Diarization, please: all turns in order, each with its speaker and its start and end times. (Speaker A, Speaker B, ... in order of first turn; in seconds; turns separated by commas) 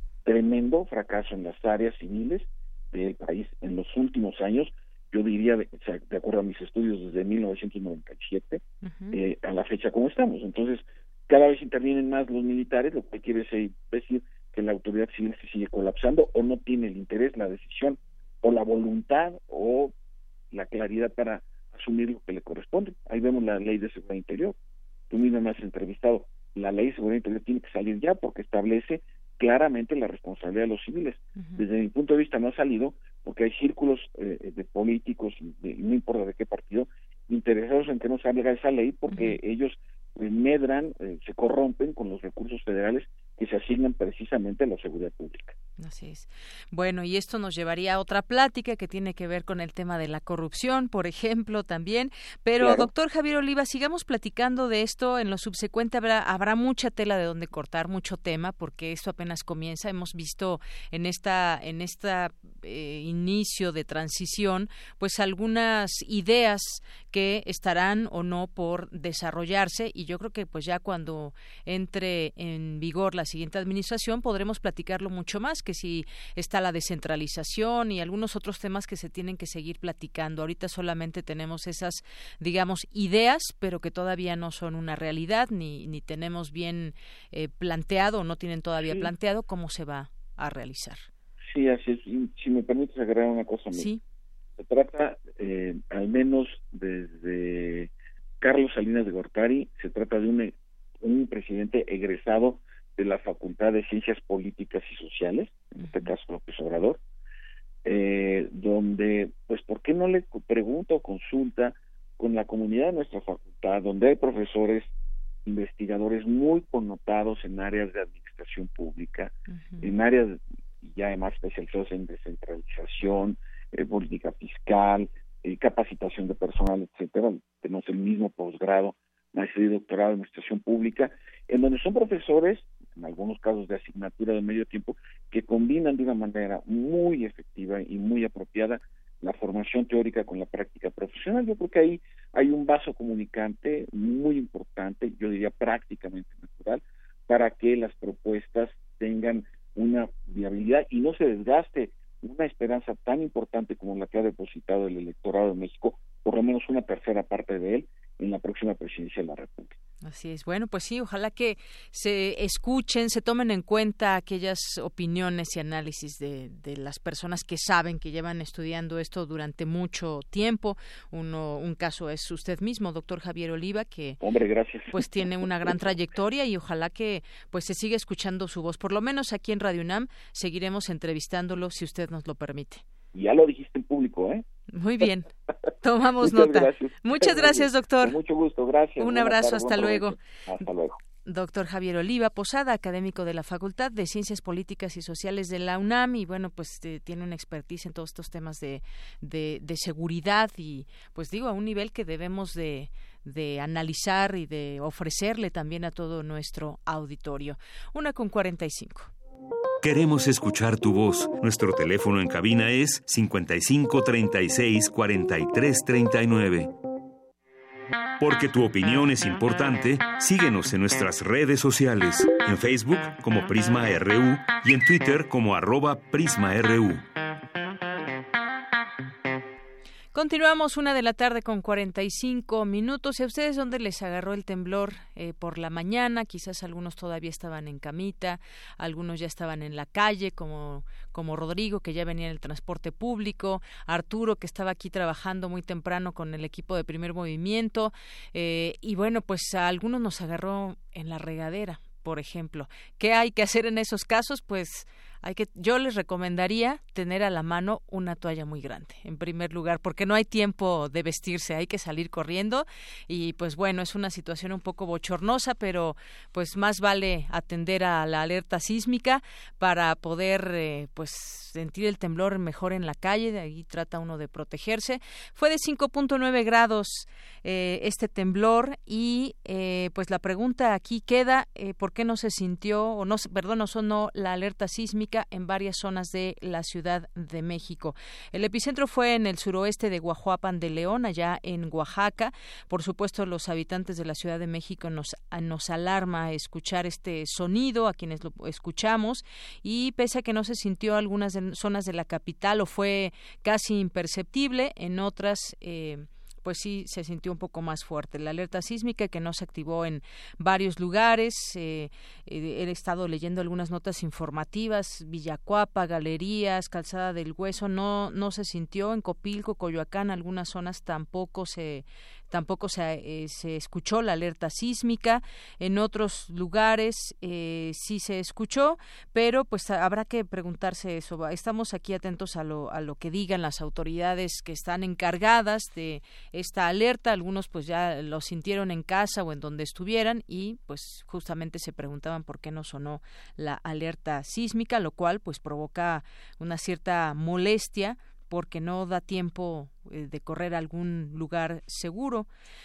Speaker A: 0.2-8.6, Speaker B: 8.8-9.2, Speaker A: 9.1-19.9, Speaker A: 20.5-24.6, Speaker A: 25.1-45.5, Speaker B: 31.4-31.6, Speaker B: 39.1-39.4, Speaker B: 45.8-91.1, Speaker A: 52.6-52.9, Speaker A: 91.5-93.9, Speaker B: 93.7-94.0, Speaker A: 94.6-97.9, Speaker A: 98.4-107.0, Speaker B: 105.8-106.1, Speaker A: 107.8-114.9, Speaker A: 115.5-159.8, Speaker B: 119.5-119.9, Speaker B: 160.0-174.2, Speaker A: 174.2-175.8, Speaker B: 174.9-182.8, Speaker A: 183.1-184.4, Speaker B: 184.7-185.3, Speaker B: 185.8-188.2, Speaker A: 186.2-191.0, Speaker B: 189.0-190.2, Speaker B: 191.2-209.1, Speaker C: 209.8-216.7, Speaker C: 218.2-227.0, Speaker B: 230.1-352.3